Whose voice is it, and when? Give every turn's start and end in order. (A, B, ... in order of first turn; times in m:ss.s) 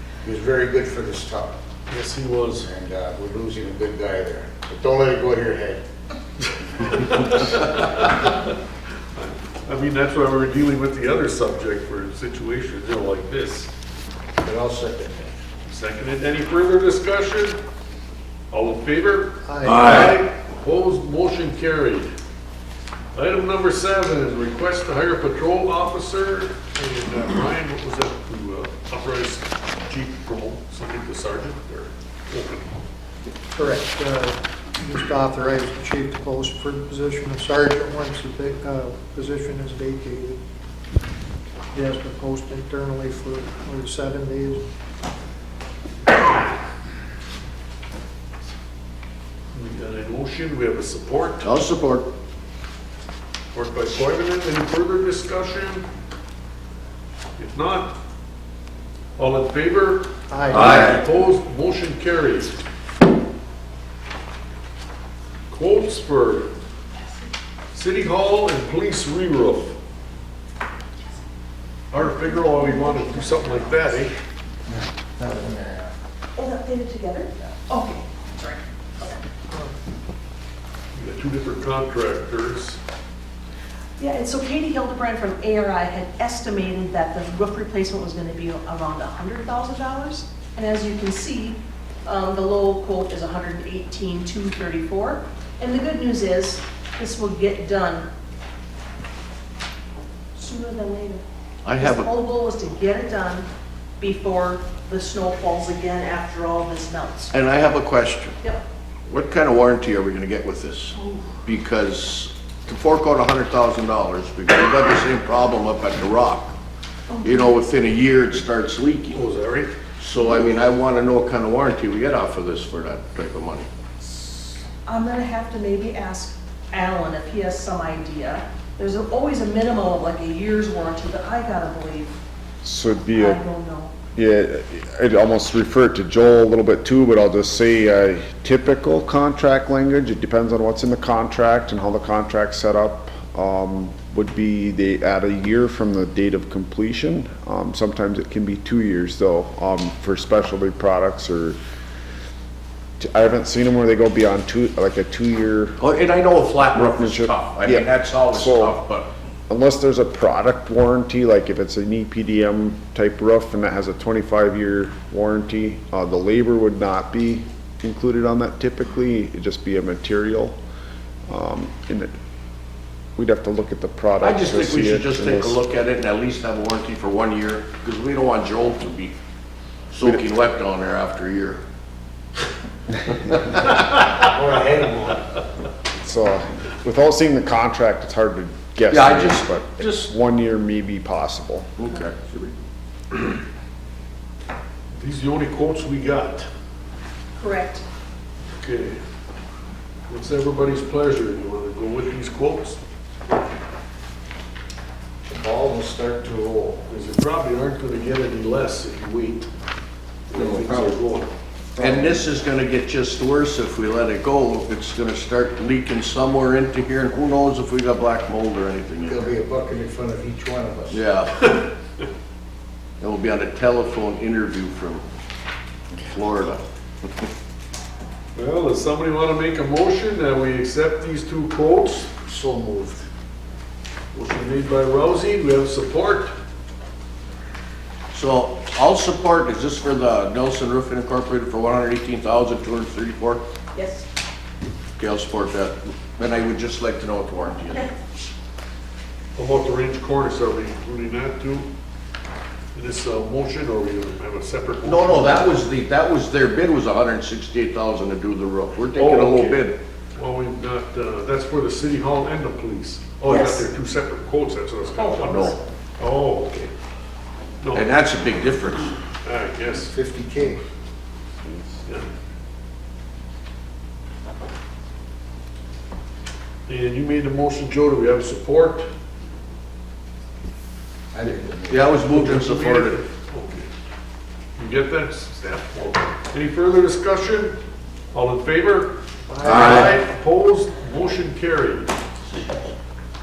0:00.2-0:01.6 A
0:01.9-0:02.7 B
0:02.6-0:05.8 A
0:06.8-0:08.6 B
0:09.2-0:13.7 B
0:14.4-0:15.4 A
0:15.7-0:17.6 B
0:18.5-0:22.1 B
0:19.4-0:20.0 C
0:19.6-0:20.1 D
0:23.1-0:32.7 B
0:33.5-0:40.4 C
0:41.7-0:44.6 C
0:49.5-0:51.5 B
0:51.4-0:52.1 D
0:53.5-0:55.9 B
0:57.4-0:58.0 B
0:59.2-1:02.6 B
1:00.3-1:00.8 C
1:00.5-1:01.0 D
1:05.5-1:06.5 B
1:07.7-1:09.8 B
1:11.9-1:14.2 B
1:12.0-1:14.0 E
1:15.2-1:15.9 A
1:16.4-1:19.2 E
1:21.0-1:22.8 B
1:24.0-1:38.1 E
1:40.4-1:41.2 E
1:41.6-1:42.1 D
1:41.8-1:43.5 E
1:44.0-1:47.3 E
1:47.3-1:48.4 D
1:49.1-1:56.6 D
1:57.1-1:57.6 E
1:57.2-1:59.2 D
1:59.1-1:59.7 B
2:00.0-2:03.7 D
2:00.2-2:00.6 E
2:04.0-2:12.2 E
2:12.6-2:13.4 F
2:13.1-2:13.9 E
2:14.2-2:31.6 F
2:33.0-2:35.8 F
2:35.8-2:39.1 D
2:36.7-2:38.8 F
2:39.5-2:50.6 F
2:51.3-2:52.1 F
2:53.2-2:55.6 F
2:54.2-2:59.2 D
2:59.9-3:01.6 D
3:04.1-3:05.2 A
3:06.0-3:11.7 F
3:08.9-3:10.1 D
3:11.8-3:12.5 D
3:15.0-3:16.5 B
3:17.4-3:17.8 E
3:18.6-3:19.0 B
3:20.1-3:22.8 B
3:25.3-3:26.9 A
3:26.9-3:29.5 B
3:30.3-3:31.3 B
3:30.4-3:30.9 A
3:31.7-3:32.3 A
3:31.8-3:39.3 D
3:39.0-3:41.0 A
3:40.9-3:41.3 D
3:41.4-3:42.0 B
3:43.0-3:45.0 D
3:46.0-3:46.6 D
3:48.4-3:52.1 B
3:52.2-3:53.1 A
3:54.1-3:56.3 B
3:58.1-4:03.5 D
4:03.7-4:04.1 E
4:05.0-4:07.9 D
4:09.4-4:11.7 B
4:12.7-4:15.6 B
4:14.8-4:19.8 D
4:18.9-4:26.7 B
4:23.2-4:23.7 E
4:24.9-4:25.6 E
4:25.3-4:25.5 D
4:27.6-4:27.9 B
4:27.7-4:28.9 D
4:29.2-4:29.9 B
4:29.9-4:30.6 A
4:36.7-4:38.9 B
4:41.1-4:42.0 A
4:41.7-4:43.0 D
4:42.1-4:43.7 B
4:44.6-4:47.6 B
4:48.1-4:52.0 B
4:49.3-4:49.8 A
4:49.4-4:49.9 D
4:52.3-4:52.6 D